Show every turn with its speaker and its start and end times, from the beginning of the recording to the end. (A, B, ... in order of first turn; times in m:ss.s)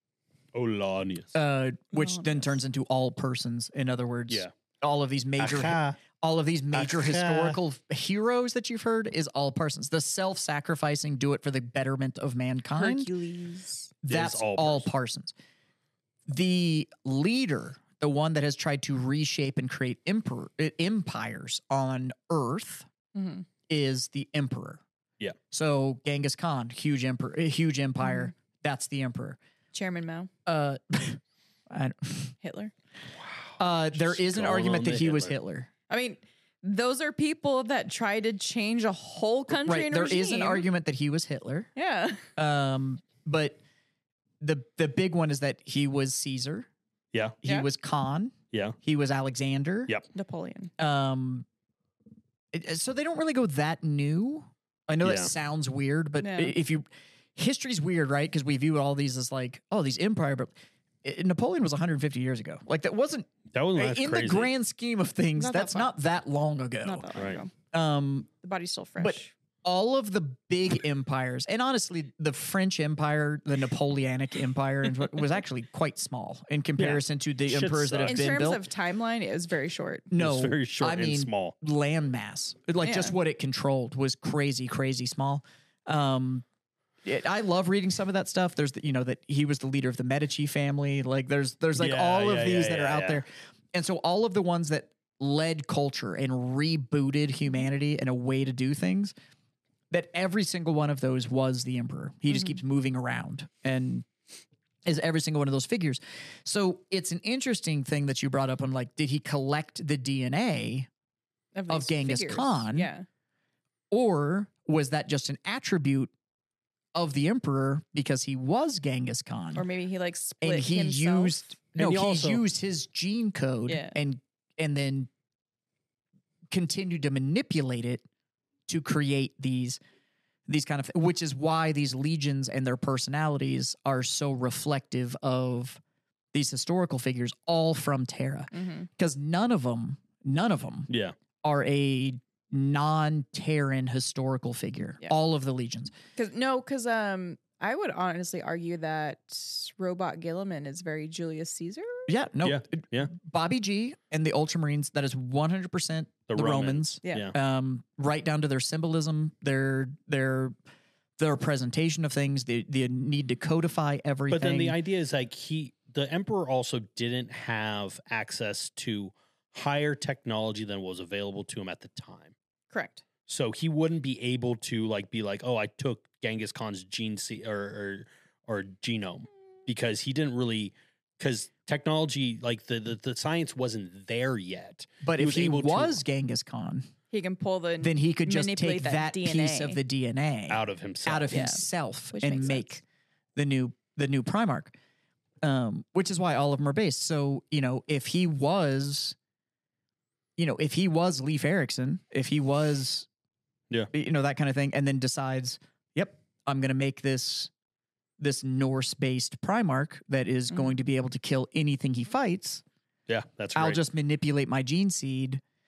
0:00.5-0:01.4 A
0:01.3-0:13.1 B
0:01.9-0:02.4 C
0:05.4-0:06.0 A
0:06.7-0:07.6 A
0:12.8-0:13.9 C
0:14.0-0:15.3 B
0:14.1-0:14.9 A
0:16.3-0:22.8 B
0:23.1-0:23.4 C
0:23.7-0:24.8 B
0:25.5-0:29.4 B
0:28.0-0:28.3 C
0:29.7-0:30.3 C
0:30.4-0:32.3 B
0:32.4-0:32.7 C
0:33.4-0:35.3 A
0:33.6-0:35.7 B
0:35.9-0:40.7 C
0:39.5-0:41.7 B
0:41.8-0:42.2 C
0:42.4-0:43.6 B
0:44.4-0:46.7 B
0:47.1-0:47.4 A
0:47.4-0:49.9 B
0:50.1-0:50.7 C
0:50.8-0:51.4 B
0:52.5-1:07.1 B
0:55.0-0:55.3 A
0:56.2-0:56.5 C
1:03.5-1:04.5 A
1:05.4-1:05.9 C
1:06.8-1:07.5 C
1:07.1-1:07.4 A
1:07.7-1:08.3 B
1:08.4-1:09.3 C
1:09.0-1:18.6 B
1:16.8-1:18.3 A
1:18.0-1:20.1 C
1:20.1-1:26.4 B
1:20.2-1:21.5 A
1:22.8-1:23.1 C
1:27.0-1:39.1 B
1:31.8-1:33.2 A
1:39.9-1:44.1 B
1:44.8-1:50.9 B
1:51.5-1:53.0 C
1:51.7-1:52.9 B
1:53.9-1:56.1 B
1:56.9-1:59.6 B
1:59.5-2:01.4 C
2:00.4-2:05.1 B
2:01.8-2:02.4 A
2:03.7-2:04.0 C
2:06.5-2:08.0 B
2:08.7-2:09.8 B
2:10.5-2:15.8 B
2:16.3-2:20.9 B
2:18.5-2:18.9 C
2:20.9-2:21.1 A
2:21.4-2:25.9 B
2:26.2-2:32.1 C
2:32.1-2:40.5 B
2:32.4-2:33.1 A
2:36.3-2:37.3 A
2:37.0-2:37.3 C
2:41.2-2:44.8 B
2:44.3-2:52.3 A
2:52.7-2:53.0 C
2:53.3-3:06.0 A
3:05.0-3:06.9 B
3:07.1-3:09.8 C
3:07.8-3:12.8 B
3:10.5-3:11.3 A
3:11.3-3:12.7 C
3:13.4-3:14.7 B
3:15.4-3:19.2 B
3:20.4-3:23.1 B
3:23.9-3:27.5 B
3:28.2-3:32.6 B
3:33.1-3:33.8 A
3:33.5-3:35.4 B